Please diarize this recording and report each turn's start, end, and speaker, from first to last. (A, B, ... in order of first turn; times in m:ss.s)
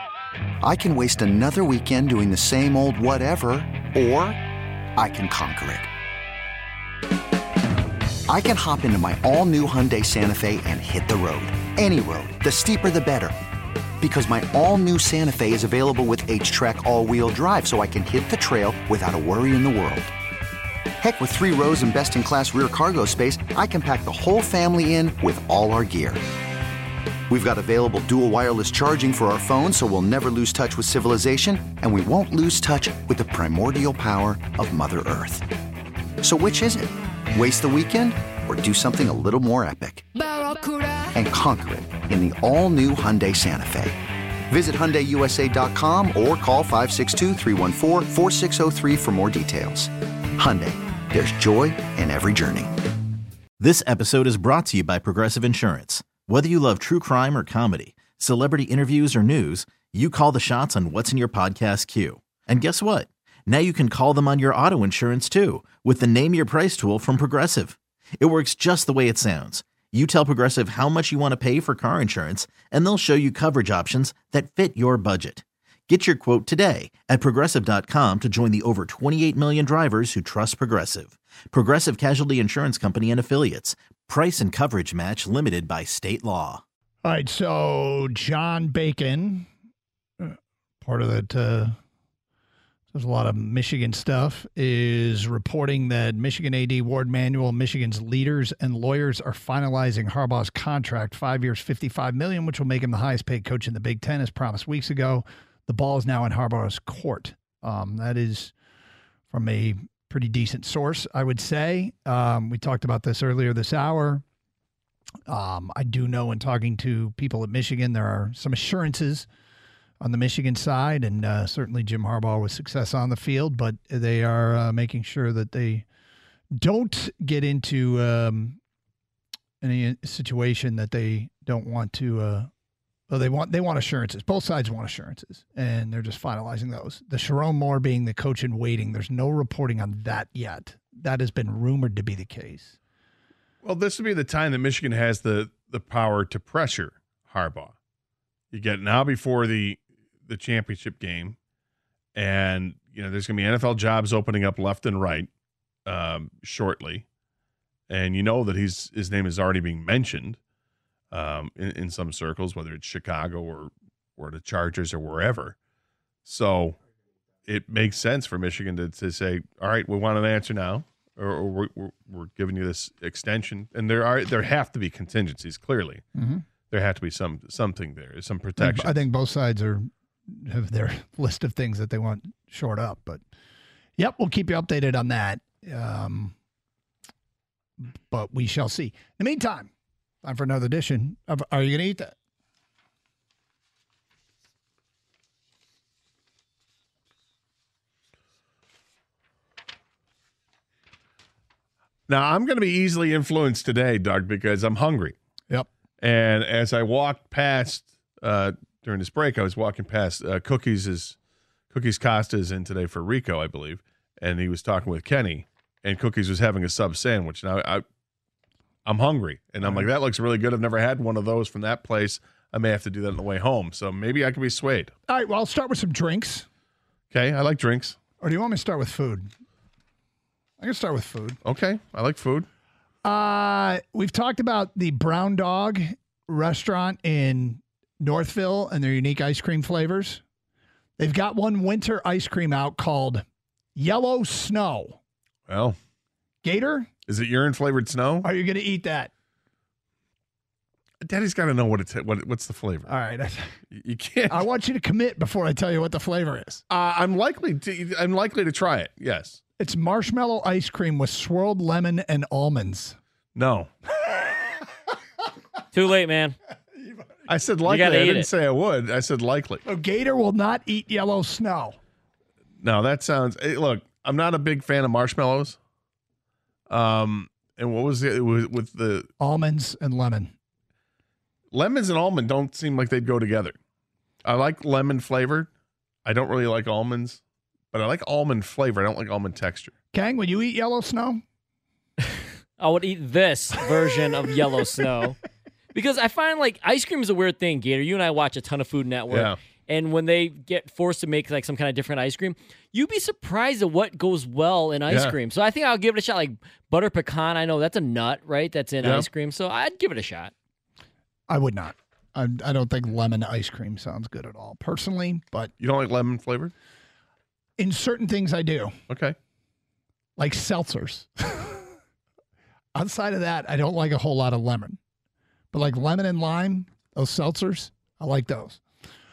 0:00.6-0:04.4 A
0:05.0-0:05.9 A
0:08.3-0:13.3 A
0:14.0-0:20.1 A
0:21.0-0:26.2 A
0:27.3-0:35.5 A
0:36.2-0:40.0 A
0:41.1-0:44.0 A
0:44.5-0:52.7 A
0:53.6-1:26.6 B
1:27.0-1:29.5 C
1:30.2-1:31.8 C
1:32.9-1:48.5 C
1:49.3-1:54.2 C
1:55.3-1:59.3 C
2:00.0-2:05.8 C
2:06.6-2:08.6 C
2:09.6-2:12.5 C
2:13.1-2:22.8 C
2:23.6-2:27.7 D
2:28.5-2:31.4 D
2:32.2-2:35.3 D
2:35.9-2:37.0 D
2:37.9-2:40.4 D
2:41.1-2:45.6 D
2:46.2-2:46.8 D
2:47.5-2:56.0 D
2:56.2-2:56.4 C
2:56.7-2:59.0 D
2:58.6-3:03.2 C
3:04.0-3:06.3 C
3:07.8-3:09.7 C
3:10.2-3:12.1 C
3:22.1-3:25.2 D
3:26.0-3:31.2 D
3:31.7-3:37.8 D
3:38.9-3:44.9 D
3:45.1-3:46.5 C
3:47.1-3:48.0 D
3:48.2-3:49.3 C
3:50.6-3:51.4 C
3:51.4-3:52.5 D
3:53.0-4:00.2 C
4:01.0-4:03.2 C
4:03.8-4:05.0 C
4:05.5-4:05.8 D
4:06.4-4:06.9 C
4:07.1-4:08.3 D
4:08.2-4:09.1 C
4:11.0-4:12.9 D
4:12.9-4:13.6 C
4:13.7-4:14.4 D
4:14.3-4:16.6 C
4:16.7-4:19.4 D
4:19.6-4:23.0 C
4:23.4-4:23.7 D
4:25.7-4:26.4 E
4:27.3-4:29.6 D
4:27.6-4:28.3 E
4:29.7-4:31.8 C
4:32.6-4:35.6 D
4:36.7-4:39.1 D
4:39.2-4:40.3 C
4:41.5-4:43.6 D
4:44.2-4:45.5 D
4:46.0-4:47.2 D
4:47.7-4:49.7 D
4:49.9-4:51.2 C
4:52.6-4:55.2 E
4:55.7-5:10.3 E
4:59.1-4:59.4 D
5:04.9-5:05.2 D
5:11.3-5:15.5 C
5:15.6-5:16.5 D
5:17.6-5:18.8 C
5:18.9-5:19.2 D
5:20.2-5:21.7 C
5:22.8-5:24.8 C
5:25.5-5:28.6 C